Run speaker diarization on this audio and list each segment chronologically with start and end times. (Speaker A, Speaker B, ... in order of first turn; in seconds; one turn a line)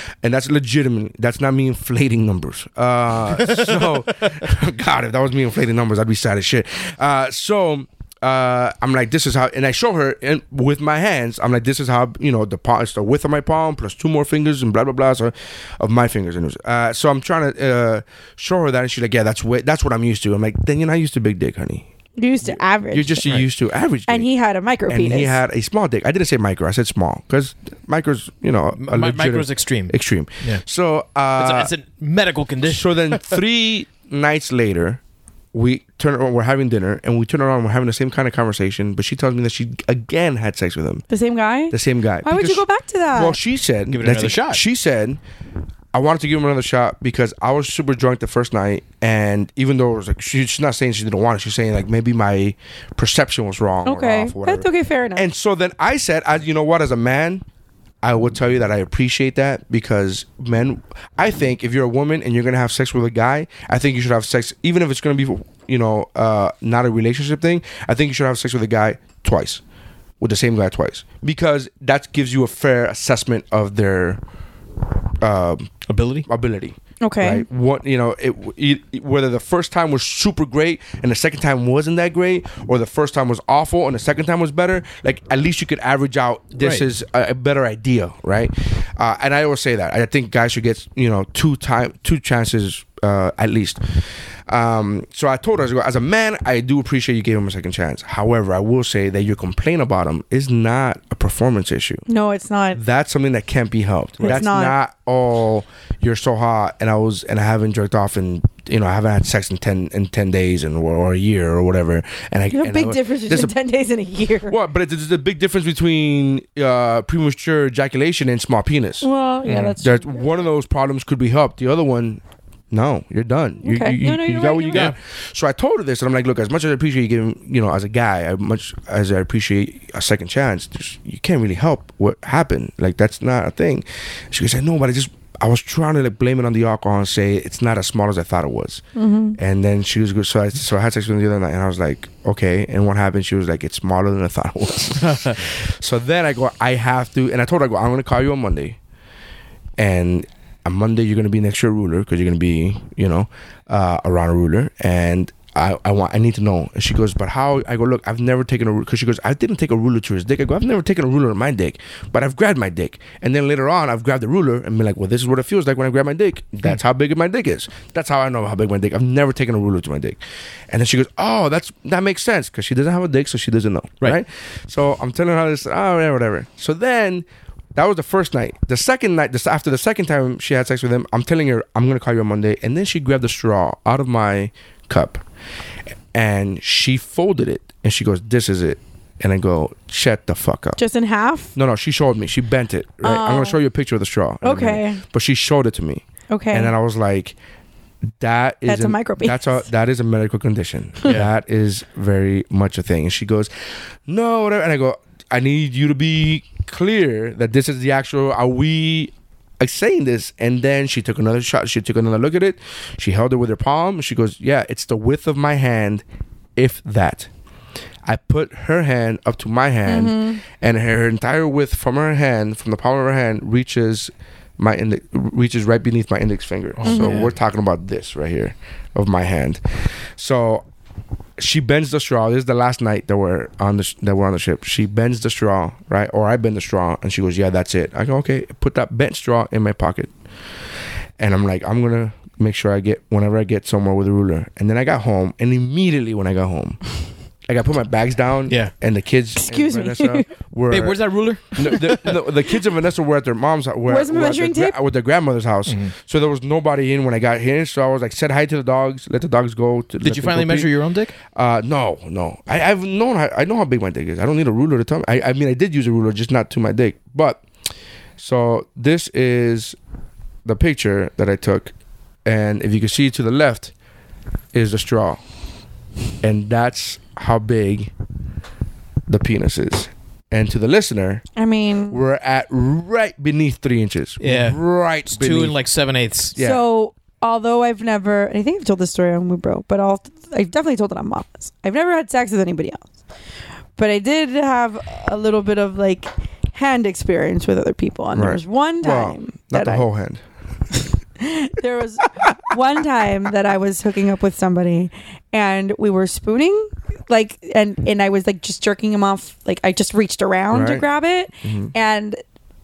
Speaker A: 0.2-21.9
Speaker B: 22.2-23.3
Speaker A: 22.4-24.3
Speaker B: 24.1-25.4
Speaker A: 24.9-31.7
Speaker C: 28.8-30.6
Speaker C: 31.4-33.4
Speaker A: 32.6-35.0
Speaker A: 35.5-41.0
Speaker B: 41.1-43.4
Speaker A: 41.7-45.2
Speaker C: 43.9-44.6
Speaker A: 45.9-57.4
Speaker B: 53.9-55.3
Speaker A: 58.0-69.6
Speaker A: 70.2-74.2
Speaker A: 75.2-75.7
Speaker C: 75.9-76.3
Speaker A: 76.2-93.8
Speaker B: 77.0-77.5
Speaker C: 86.6-86.9
Speaker A: 94.5-102.0
Speaker B: 102.1-102.8
Speaker A: 102.7-113.5
Speaker B: 104.2-104.8
Speaker B: 112.5-114.6
Speaker A: 114.5-119.1
Speaker B: 119.0-120.4
Speaker C: 119.5-119.8
Speaker A: 119.7-138.8
Speaker B: 123.6-124.9
Speaker B: 139.0-139.4
Speaker A: 139.4-148.8
Speaker C: 145.1-145.4
Speaker A: 149.8-185.2
Speaker A: 186.1-190.8
Speaker B: 190.8-191.5
Speaker A: 191.6-197.4
Speaker B: 193.0-193.6
Speaker B: 194.4-195.0
Speaker B: 196.3-196.7
Speaker A: 198.2-203.5
Speaker B: 198.7-199.7
Speaker A: 204.1-216.0
Speaker A: 216.6-217.3
Speaker A: 218.0-229.6
Speaker B: 219.9-220.4
Speaker C: 226.8-227.3
Speaker B: 226.9-227.2
Speaker A: 230.2-230.7
Speaker A: 231.4-240.1
Speaker A: 241.2-246.8
Speaker A: 247.5-251.0
Speaker B: 249.4-250.3
Speaker C: 250.7-252.2
Speaker A: 251.5-260.7
Speaker B: 253.9-254.8
Speaker C: 255.7-255.9
Speaker C: 260.0-261.1
Speaker A: 261.3-267.4
Speaker A: 268.2-269.8
Speaker A: 270.4-271.7
Speaker A: 272.2-273.7
Speaker A: 274.5-275.2
Speaker A: 276.2-277.9
Speaker A: 279.1-281.2
Speaker B: 281.4-282.0
Speaker A: 281.9-285.6
Speaker C: 284.2-286.4
Speaker A: 286.4-286.6
Speaker B: 286.4-292.8
Speaker B: 293.8-299.9
Speaker A: 298.1-300.2
Speaker B: 301.2-312.2
Speaker A: 310.5-310.9
Speaker A: 311.4-311.7